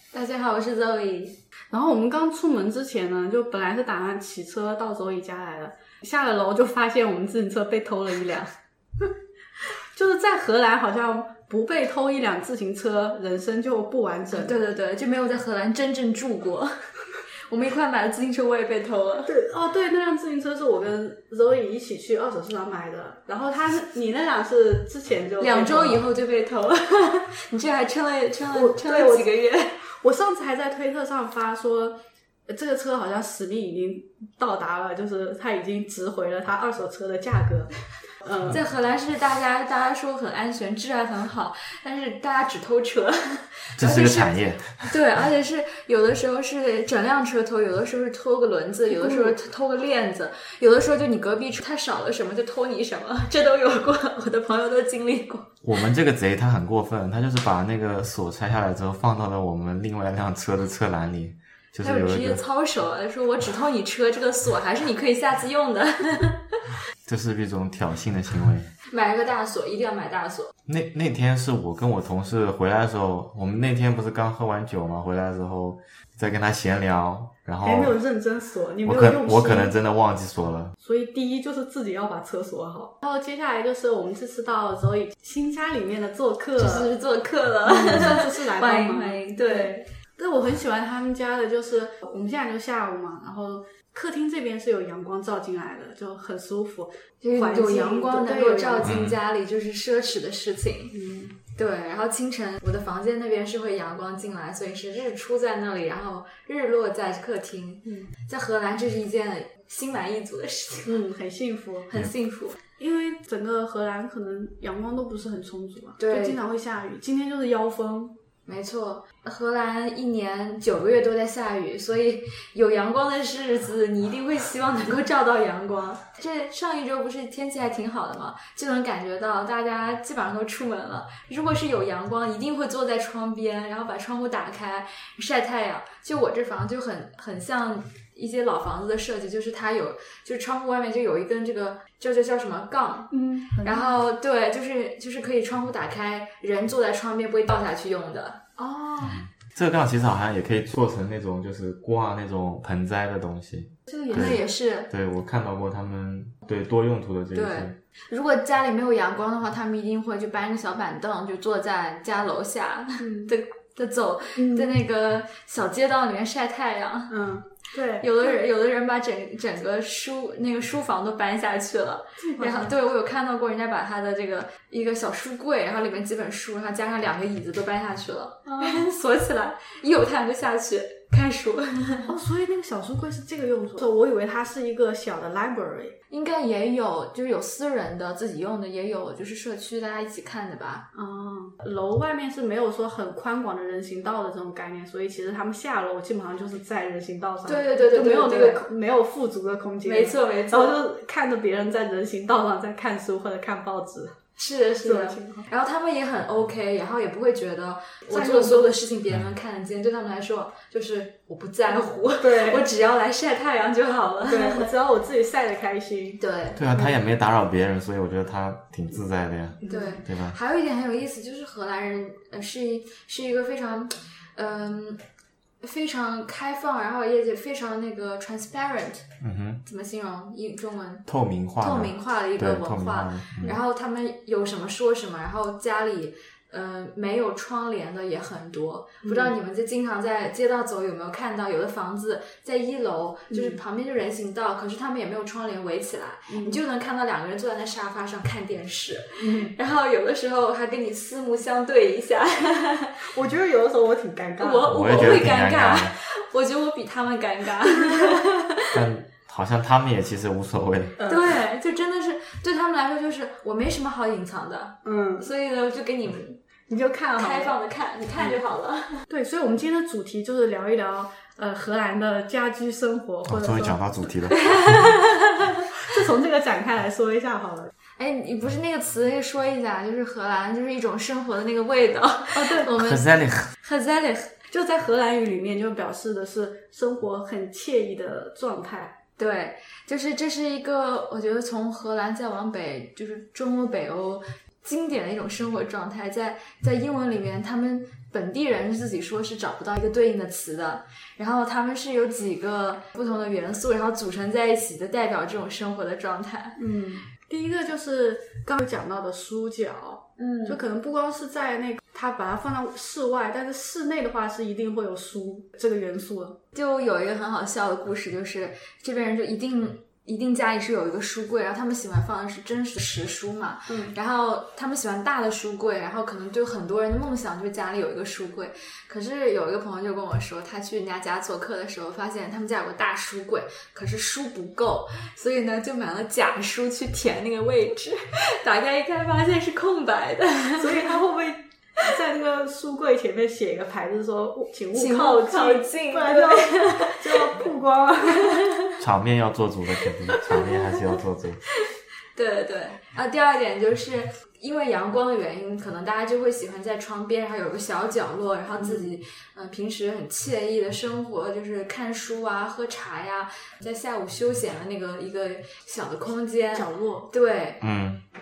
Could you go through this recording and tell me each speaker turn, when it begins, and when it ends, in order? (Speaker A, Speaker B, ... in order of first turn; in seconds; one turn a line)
Speaker A: 0.1-1.4
Speaker B: 1.7-8.5
Speaker B: 9.9-14.6
Speaker A: 14.3-16.8
Speaker A: 17.5-19.3
Speaker B: 19.3-26.0
Speaker A: 25.4-29.8
Speaker B: 28.5-29.3
Speaker B: 29.8-38.6
Speaker A: 38.5-55.5
Speaker C: 43.8-44.9
Speaker B: 48.9-49.4
Speaker C: 55.6-62.4
Speaker A: 61.8-66.6
Speaker C: 67.0-68.7
Speaker A: 68.9-70.5
Speaker C: 70.7-78.0
Speaker B: 77.6-79.7
Speaker C: 78.8-80.8
Speaker B: 80.8-86.9
Speaker A: 86.6-89.8
Speaker B: 87.6-99.0
Speaker A: 97.2-101.0
Speaker C: 98.8-99.2
Speaker B: 100.9-101.4
Speaker A: 101.5-110.9
Speaker B: 107.8-108.1
Speaker B: 110.9-111.9
Speaker A: 111.9-112.6
Speaker B: 112.8-118.2
Speaker A: 116.0-116.4
Speaker A: 118.5-148.5
Speaker B: 143.1-143.9
Speaker B: 148.6-149.2
Speaker C: 149.0-157.8
Speaker B: 153.9-154.4
Speaker A: 154.1-154.9
Speaker A: 157.3-167.2
Speaker B: 163.0-163.3
Speaker B: 164.4-164.7
Speaker B: 167.1-168.4
Speaker A: 168.0-182.1
Speaker B: 172.2-172.7
Speaker B: 178.5-178.9
Speaker B: 182.1-186.0
Speaker A: 186.1-190.9
Speaker B: 190.9-204.2
Speaker A: 197.5-198.6
Speaker A: 199.8-200.8
Speaker A: 204.4-214.7
Speaker B: 204.8-205.5
Speaker B: 208.1-208.8
Speaker B: 212.1-212.7
Speaker B: 214.3-216.2
Speaker A: 216.2-216.6
Speaker C: 216.6-220.4
Speaker B: 219.6-220.0
Speaker A: 219.7-225.0
Speaker A: 225.6-229.1
Speaker C: 229.2-229.6
Speaker A: 229.6-231.1
Speaker C: 231.1-233.6
Speaker A: 231.6-253.1
Speaker B: 239.0-239.3
Speaker B: 243.3-243.6
Speaker B: 246.3-246.6
Speaker B: 249.2-249.5
Speaker B: 253.1-254.7
Speaker A: 254.4-258.8
Speaker C: 254.7-255.9
Speaker B: 257.9-258.1
Speaker C: 258.7-261.0
Speaker B: 261.0-261.4
Speaker A: 261.1-266.4
Speaker B: 264.8-265.3
Speaker B: 266.7-267.6
Speaker A: 267.2-269.1
Speaker B: 269.1-274.8
Speaker C: 273.2-275.0
Speaker A: 274.3-275.7
Speaker B: 275.7-277.7
Speaker A: 278.0-284.3
Speaker B: 282.3-282.7
Speaker C: 282.8-283.5
Speaker B: 284.5-288.9
Speaker A: 289.2-306.6
Speaker B: 306.6-316.4
Speaker A: 310.2-310.6
Speaker A: 316.5-341.0
Speaker B: 323.7-323.9
Speaker B: 340.6-348.4
Speaker A: 344.7-347.5
Speaker A: 348.2-348.8
Speaker C: 348.8-351.4
Speaker A: 352.1-367.6
Speaker B: 358.6-358.9
Speaker B: 366.5-367.1
Speaker C: 367.6-368.0